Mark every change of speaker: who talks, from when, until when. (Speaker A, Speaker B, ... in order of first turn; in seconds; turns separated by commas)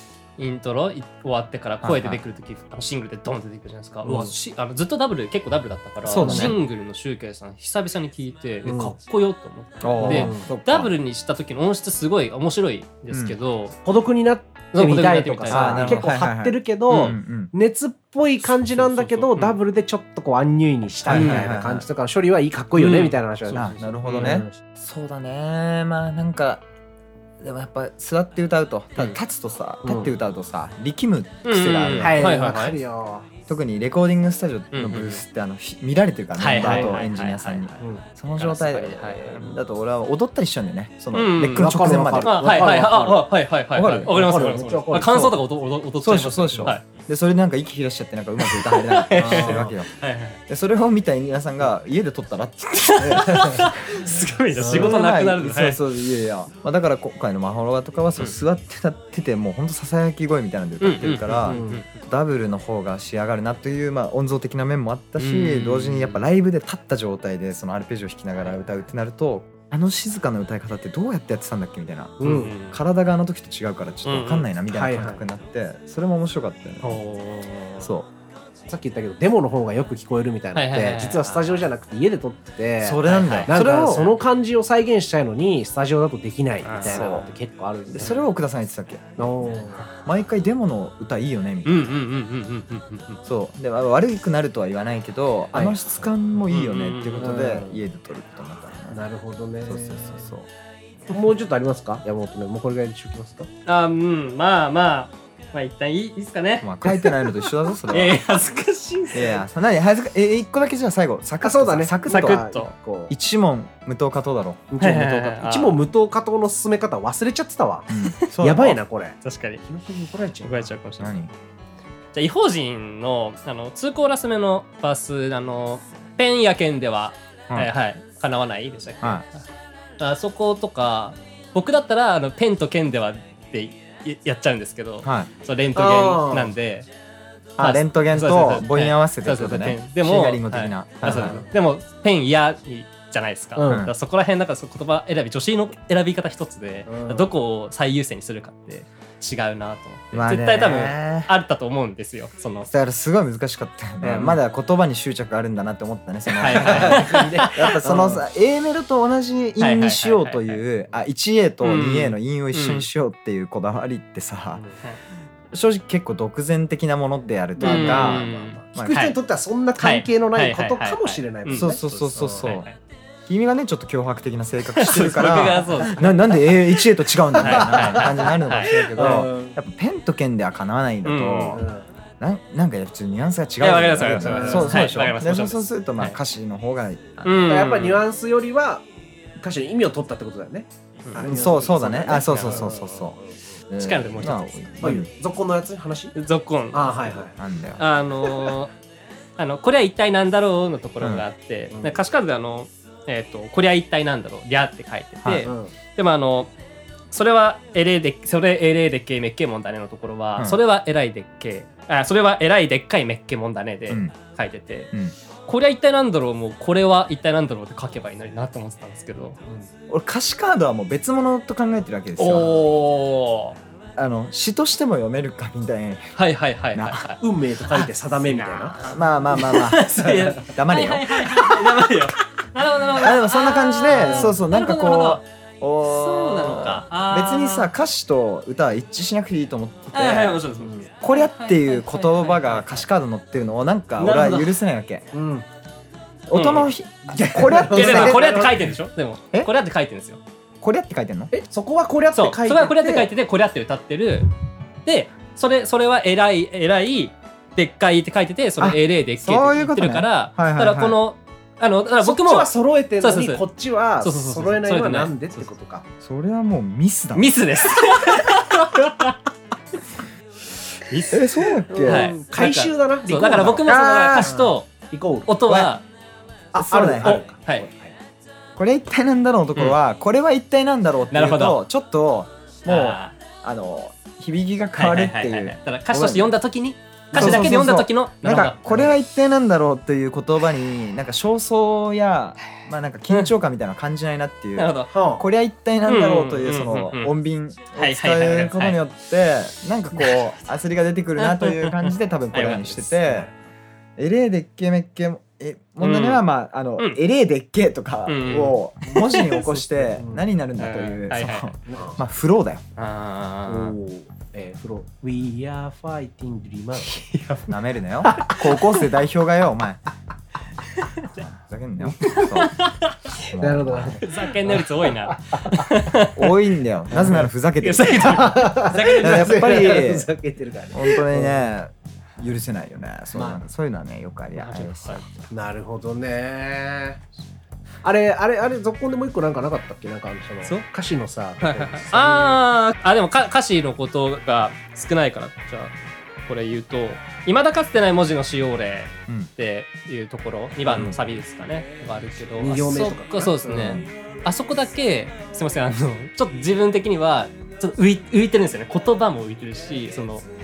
Speaker A: 0.4-13.8, Speaker B: 1.8-2.2, Speaker B: 6.0-6.6, Speaker C: 6.2-6.6, Speaker C: 8.7-9.0, Speaker B: 9.8-10.9, Speaker C: 10.0-10.5, Speaker B: 13.1-13.4, Speaker C: 13.8-24.6, Speaker A: 14.7-16.0, Speaker B: 15.5-17.5, Speaker A: 16.9-17.2, Speaker A: 18.6-19.6, Speaker B: 21.1-21.9, Speaker A: 21.1-21.5, Speaker A: 22.8-24.4, Speaker B: 23.5-26.6, Speaker B: 27.4-32.3, Speaker C: 29.8-30.1, Speaker A: 31.4-32.8, Speaker C: 31.9-33.3, Speaker B: 33.5-42.7, Speaker A: 34.7-35.2, Speaker A: 36.4-37.8, Speaker C: 36.6-37.0, Speaker A: 38.4-39.6, Speaker A: 41.1-46.9, Speaker C: 41.5-43.3, Speaker B: 43.7-44.2, Speaker C: 44.0-45.4, Speaker B: 46.0-49.9, Speaker A: 48.4-50.4, Speaker C: 49.2-49.7, Speaker B: 50.5-53.9, Speaker A: 52.8-55.8, Speaker C: 53.0-53.7, Speaker B: 54.6-77.0, Speaker C: 54.6-55.0, Speaker A: 60.8-61.9, Speaker C: 61.5-61.8, Speaker A: 65.2-66.2, Speaker C: 72.2-72.5, Speaker A: 72.2-72.8, Speaker A: 74.0-74.5, Speaker C: 74.7-75.2, Speaker A: 76.8-77.9, Speaker B: 77.8-78.1, Speaker C: 78.7-88.2, Speaker A: 80.5-81.6, Speaker B: 82.8-84.1, Speaker A: 83.1-84.1, Speaker A: 86.7-87.3, Speaker B: 86.8-87.3, Speaker B: 87.9-91.9, Speaker C: 89.2-89.8, Speaker A: 91.7-93.2, Speaker B: 93.2-99.0, Speaker C: 95.5-95.8, Speaker A: 96.5-97.3, Speaker C: 97.2-97.8, Speaker C: 98.9-100.3, Speaker B: 99.7-100.5, Speaker C: 101.1-103.5, Speaker A: 103.7-109.4, Speaker B: 106.6-108.2, Speaker B: 109.1-112.5, Speaker C: 111.4-113.1, Speaker A: 112.1-112.7, Speaker B: 113.1-114.7, Speaker C: 114.7-120.7, Speaker A: 114.8-115.8, Speaker B: 117.9-118.8, Speaker A: 119.2-119.6, Speaker A: 120.4-121.1, Speaker B: 121.0-121.3, Speaker A: 122.1-129.3, Speaker A: 130.0-136.9, Speaker B: 135.0-135.3, Speaker C: 135.8-136.5, Speaker B: 137.6-141.4, Speaker A: 137.6-152.7, Speaker C: 141.1-141.5, Speaker C: 143.6-143.9, Speaker B: 143.7-143.9, Speaker C: 146.9-147.3, Speaker B: 150.1-151.3, Speaker B: 152.7-164.6, Speaker C: 154.0-154.3, Speaker A: 154.1-154.3, Speaker A: 156.3-157.8, Speaker C: 156.5-158.2, Speaker A: 159.6-160.6, Speaker A: 161.6-162.9, Speaker B: 165.5-169.0, Speaker C: 167.6-172.5, Speaker A: 167.6-169.2, Speaker A: 169.8-172.8, Speaker B: 171.5-172.7, Speaker B: 173.3-181.7, Speaker A: 174.8-176.6, Speaker C: 177.4-179.6, Speaker A: 177.4-178.8, Speaker A: 181.0-181.6, Speaker C: 181.5-181.9, Speaker B: 182.2-187.6, Speaker A: 183.6-186.2, Speaker C: 184.0-184.9, Speaker A: 187.2-188.0, Speaker C: 187.5-188.8, Speaker C: 189.4-193.3, Speaker B: 191.2-195.1, Speaker A: 192.3-192.7, Speaker A: 193.8-194.6, Speaker C: 194.8-196.2, Speaker A: 196.2-197.2, Speaker C: 196.7-197.3, Speaker B: 197.4-197.8, Speaker A: 197.8-198.7, Speaker A: 199.4-206.5, Speaker B: 201.0-201.3, Speaker C: 201.7-202.0, Speaker B: 205.2-205.5, Speaker C: 205.4-205.7, Speaker A: 207.1-214.9, Speaker B: 213.9-214.2, Speaker A: 215.5-219.4, Speaker B: 219.9-222.7, Speaker A: 222.2-223.6, Speaker B: 224.0-226.2, Speaker A: 226.2-235.2, Speaker B: 226.7-227.0, Speaker C: 227.2-228.8, Speaker B: 228.8-231.5, Speaker C: 230.0-230.4, Speaker B: 232.9-240.4, Speaker C: 234.0-234.3, Speaker A: 235.8-237.7, Speaker A: 239.9-242.9, Speaker C: 240.6-240.9, Speaker B: 241.0-245.1, Speaker C: 244.0-244.4, Speaker A: 244.1-244.4, Speaker C: 245.1-245.5, Speaker B: 246.3-248.5, Speaker A: 246.3-246.7, Speaker C: 247.1-248.6, Speaker A: 247.7-250.2, Speaker B: 250.6-251.3, Speaker C: 251.3-253.1, Speaker A: 252.2-254.3, Speaker A: 254.8-263.4, Speaker B: 258.6-261.0, Speaker C: 262.0-265.9, Speaker A: 264.0-265.5, Speaker B: 266.0-267.7, Speaker A: 267.1-269.2, Speaker A: 270.9-271.3, Speaker B: 271.1-272.1, Speaker C: 271.7-275.3, Speaker A: 271.8-274.7, Speaker B: 273.7-274.6, Speaker A: 275.3-275.8, Speaker B: 275.4-275.7, Speaker B: 276.5-277.2, Speaker C: 276.6-277.9, Speaker A: 277.0-277.6, Speaker B: 278.6-286.4, Speaker A: 281.1-281.6, Speaker A: 282.7-283.1, Speaker A: 284.8-288.9, Speaker C: 287.1-287.5, Speaker B: 287.1-303.3, Speaker A: 294.6-294.9, Speaker C: 294.9-295.2, Speaker A: 295.9-297.1, Speaker A: 297.8-298.8, Speaker A: 300.0-300.2, Speaker A: 301.2-303.1, Speaker C: 303.1-303.3, Speaker B: 304.0-312.6, Speaker A: 305.8-306.2, Speaker A: 308.1-309.6, Speaker C: 309.8-310.2, Speaker A: 310.6-311.6, Speaker C: 311.7-312.0, Speaker A: 312.8-313.8, Speaker C: 313.5-317.0, Speaker A: 316.9-317.5, Speaker B: 317.5-319.8, Speaker C: 318.1-318.8, Speaker B: 321.2-322.6, Speaker A: 322.0-323.0, Speaker B: 323.2-324.0, Speaker C: 323.4-325.7, Speaker A: 324.0-326.4, Speaker B: 326.1-328.3, Speaker C: 326.9-327.2, Speaker A: 327.6-329.7, Speaker C: 328.0-331.5, Speaker B: 328.9-330.1, Speaker B: 330.7-335.1, Speaker C: 333.1-333.4, Speaker A: 334.4-335.1, Speaker C: 335.3-337.0, Speaker C: 337.8-342.4, Speaker A: 341.4-345.7, Speaker A: 346.3-360.2, Speaker B: 350.7-351.0, Speaker C: 352.4-353.8, Speaker B: 353.5-353.9